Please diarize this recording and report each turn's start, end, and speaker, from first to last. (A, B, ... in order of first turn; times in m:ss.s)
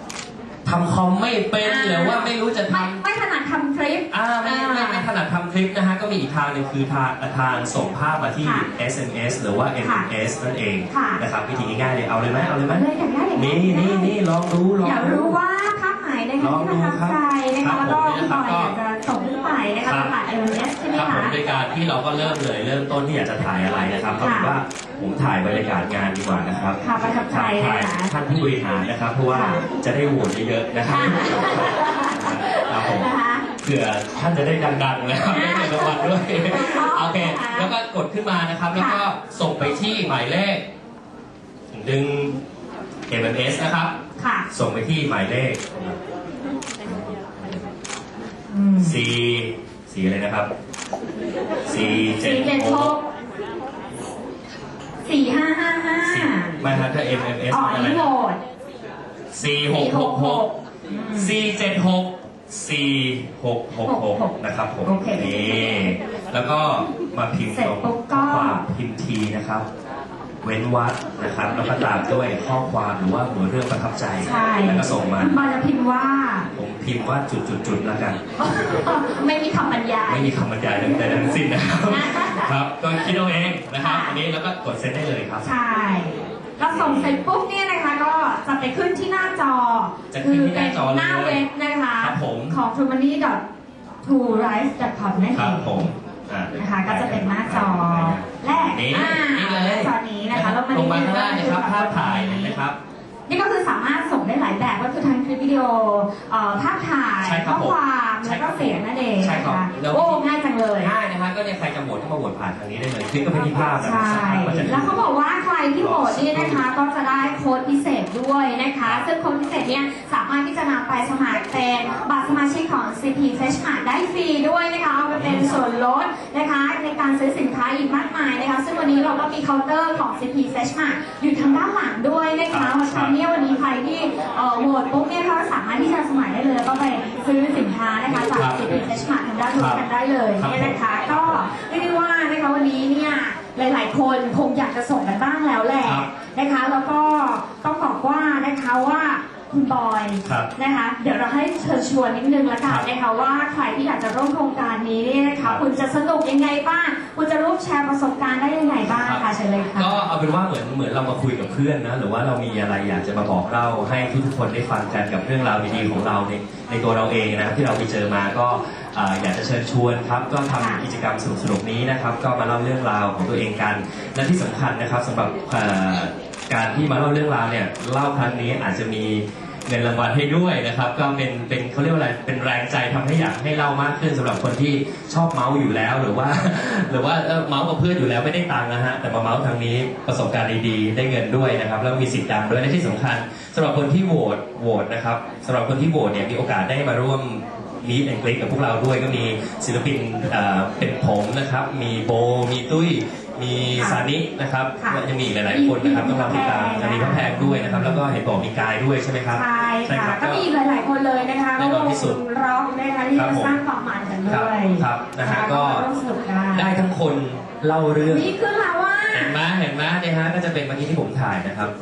0:00.6-0:03.0 A
0:01.6-0:05.1 B
0:04.1-0:12.8 A
0:08.4-0:08.7 B
0:09.8-0:10.1 B
0:10.9-0:11.2 B
0:12.7-0:14.1 B
0:13.3-0:15.4 A
0:14.8-0:21.3 B
0:16.4-0:18.7 A
0:19.8-0:20.1 A
0:20.9-0:26.8 A
0:24.2-0:24.5 B
0:26.8-0:28.1 B
0:27.3-0:33.1 A
0:29.3-0:29.6 B
0:30.9-0:33.4 B
0:33.6-0:40.6 A
0:35.3-0:37.7 B
0:38.7-0:39.0 B
0:41.7-0:42.4 A
0:43.1-0:43.9 A
0:44.2-0:44.5 B
0:44.5-0:46.0 A
0:46.8-0:47.6 A
0:48.5-0:49.0 B
0:48.8-0:50.5 A
0:51.6-0:52.9 A
0:51.7-0:53.0 B
0:55.0-0:56.6 B
0:56.0-0:58.0 A
0:57.5-0:58.4 B
0:59.3-1:00.4 A
0:59.6-1:01.4 B
1:01.1-1:09.6 A
1:03.8-1:05.9 B
1:07.5-1:08.6 B
1:10.4-1:15.4 A
1:14.2-1:16.5 B
1:16.5-1:18.2 A
1:18.4-1:22.5 B
1:20.1-1:25.5 A
1:23.8-1:24.2 B
1:25.4-1:33.4 B
1:26.7-1:27.2 A
1:30.1-1:31.4 A
1:32.0-1:32.6 A
1:34.0-1:35.9 B
1:35.3-1:42.8 A
1:36.6-1:42.6 B
1:43.3-1:50.9 B
1:47.2-1:50.2 A
1:50.8-1:55.0 A
1:53.8-2:40.0 B
1:55.8-1:56.6 A
2:05.1-2:05.6 A
2:12.5-2:13.1 A
2:18.1-2:18.7 A
2:19.5-2:19.8 A
2:20.4-2:21.4 A
2:38.9-3:30.4 A
2:50.5-2:50.8 B
3:23.7-3:24.0 B
3:24.8-3:28.0 B
3:29.3-3:36.7 B
3:31.6-3:32.2 A
3:33.1-3:33.6 A
3:34.3-3:35.8 A
3:36.5-3:38.3 A
3:38.0-3:39.4 B
3:39.1-3:41.7 A